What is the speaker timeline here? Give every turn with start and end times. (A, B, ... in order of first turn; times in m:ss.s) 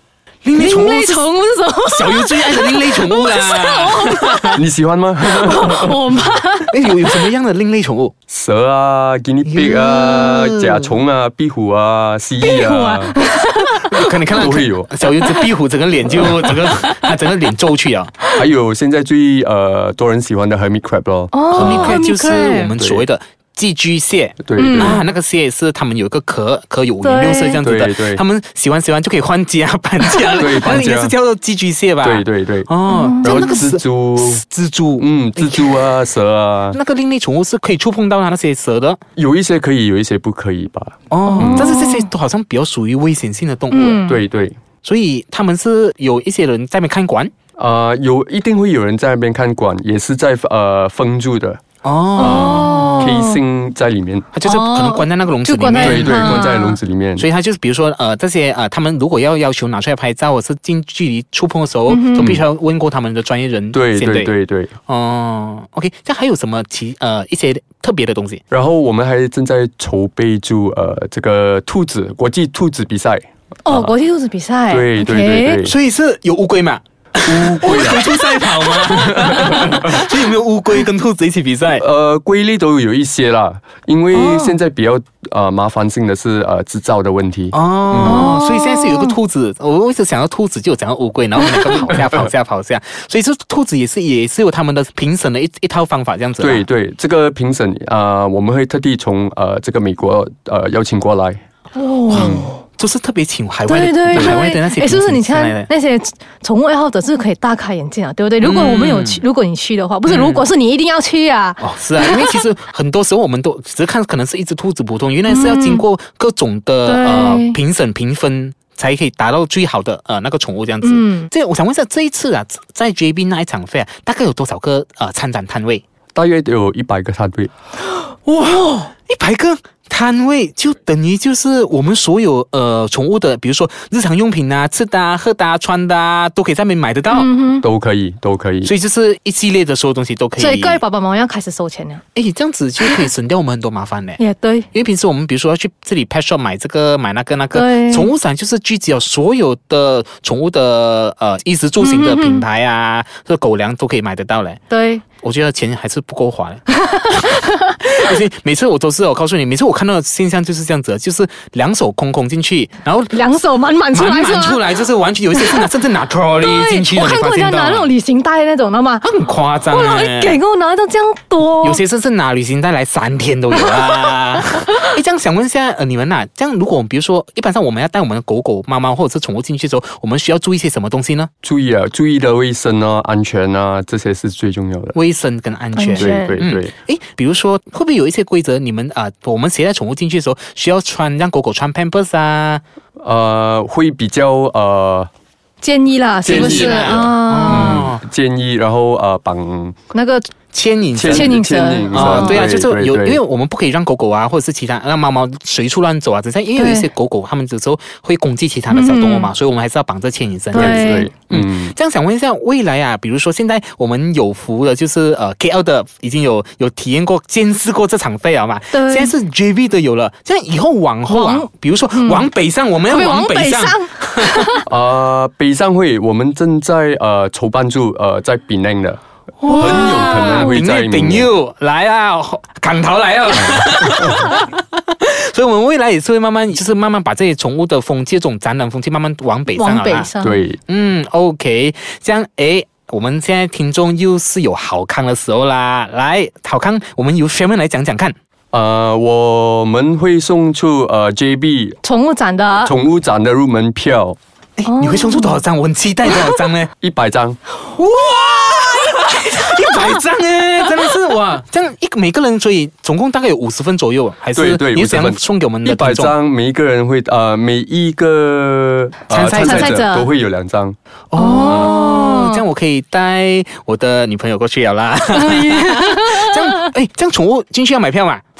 0:00.4-0:01.3 A
0:00.5-0:04.6 B
0:01.9-0:04.6 A
0:04.5-0:06.0 C
0:05.3-0:06.8 B
0:06.7-0:08.1 A
0:08.3-0:13.2 C
0:09.4-0:11.0 A
0:12.4-0:14.5 B
0:13.7-0:18.1 A
0:14.3-0:14.9 C
0:15.2-0:15.5 B
0:16.2-0:17.0 B
0:18.3-0:22.0 C
0:21.3-0:22.7 B
0:21.5-0:35.8 A
0:22.8-0:23.0 C
0:24.4-0:25.0 C
0:24.6-0:25.0 B
0:27.0-0:27.6 B
0:27.6-0:28.2 C
0:30.4-0:31.1 C
0:32.0-0:32.7 C
0:32.9-0:33.6 B
0:33.2-0:34.4 C
0:35.0-0:36.8 C
0:36.7-0:39.0 A
0:39.2-0:41.8 C
0:41.1-0:44.1 A
0:41.4-0:42.1 B
0:43.7-0:44.2 B
0:44.0-0:44.6 C
0:44.8-0:47.3 A
0:47.6-0:51.6 C
0:51.8-0:53.0 A
0:52.2-0:53.4 B
0:52.2-0:54.3 C
0:54.3-0:56.4 A
0:54.4-0:56.8 B
0:55.8-0:57.2 C
0:57.2-1:04.3 A
1:01.9-1:02.3 B
1:02.2-1:02.4 C
1:03.7-1:04.7 C
1:04.9-1:08.4 A
1:08.5-1:13.9 C
1:13.6-1:15.6 B
1:14.7-1:15.8 C
1:15.6-1:21.8 A
1:17.2-1:20.0 C
1:21.8-1:28.4 C
1:24.1-1:24.6 B
1:27.5-1:36.6 A
1:28.0-1:29.1 B
1:36.4-1:41.4 C
1:41.8-1:42.6 B
1:42.1-1:45.7 A
1:42.1-1:42.5 C
1:43.7-1:52.4 B
1:44.1-1:44.4 C
1:48.4-1:49.2 A
1:50.1-1:50.5 A
1:51.6-2:05.8 A
1:55.3-1:55.8 B
1:56.9-1:57.6 B
2:00.8-2:01.3 B
2:06.1-2:07.5 C
2:08.2-2:17.3 A
2:17.1-2:17.6 B
2:17.6-2:18.7 C
2:18.6-2:20.8 A
2:20.4-2:22.0 B
2:22.1-2:24.2 A
2:24.2-2:24.7 B
2:24.7-2:34.6 A
2:27.5-2:28.1 B
2:31.8-2:32.4 B
2:34.7-2:35.0 B
2:35.2-2:43.2 A
2:36.8-2:37.4 B
2:43.1-2:44.7 B
2:43.9-2:47.9 A
2:45.3-2:45.7 B
2:46.4-2:51.8 B
2:49.0-2:50.4 A
2:51.6-3:01.3 A
3:01.4-3:05.0 C
3:04.9-3:12.6 A
3:05.8-3:06.4 B
3:05.9-3:06.7 C
3:13.0-3:15.1 C
3:15.6-3:17.9 B
3:16.2-3:19.8 C
3:16.2-3:18.0 A
3:19.9-3:20.3 B
3:20.5-3:21.4 A
3:20.9-3:23.2 C
3:21.1-3:22.5 B
3:21.9-3:44.5 A
3:26.6-3:26.9 B
3:28.7-3:29.3 B
3:30.5-3:31.1 B
3:30.5-3:31.7 C
3:38.7-3:39.1 B
3:41.1-3:42.3 B
3:42.9-3:44.7 B
3:44.7-3:51.3 C
3:49.4-4:00.1 A
3:49.4-3:50.6 B
3:59.5-4:00.4 B
4:00.2-4:00.6 C
4:00.7-4:08.2 A
4:08.5-4:11.8 C
4:11.8-4:12.7 B
4:12.6-4:14.2 C
4:14.6-4:16.7 A
4:14.6-4:15.4 B
4:16.8-4:17.4 C
4:17.7-4:26.1 A
4:24.4-4:30.8 C
4:29.1-4:29.9 A
4:29.3-4:30.1 B
4:31.1-4:38.2 A
4:31.2-4:32.4 B
4:35.1-4:36.7 B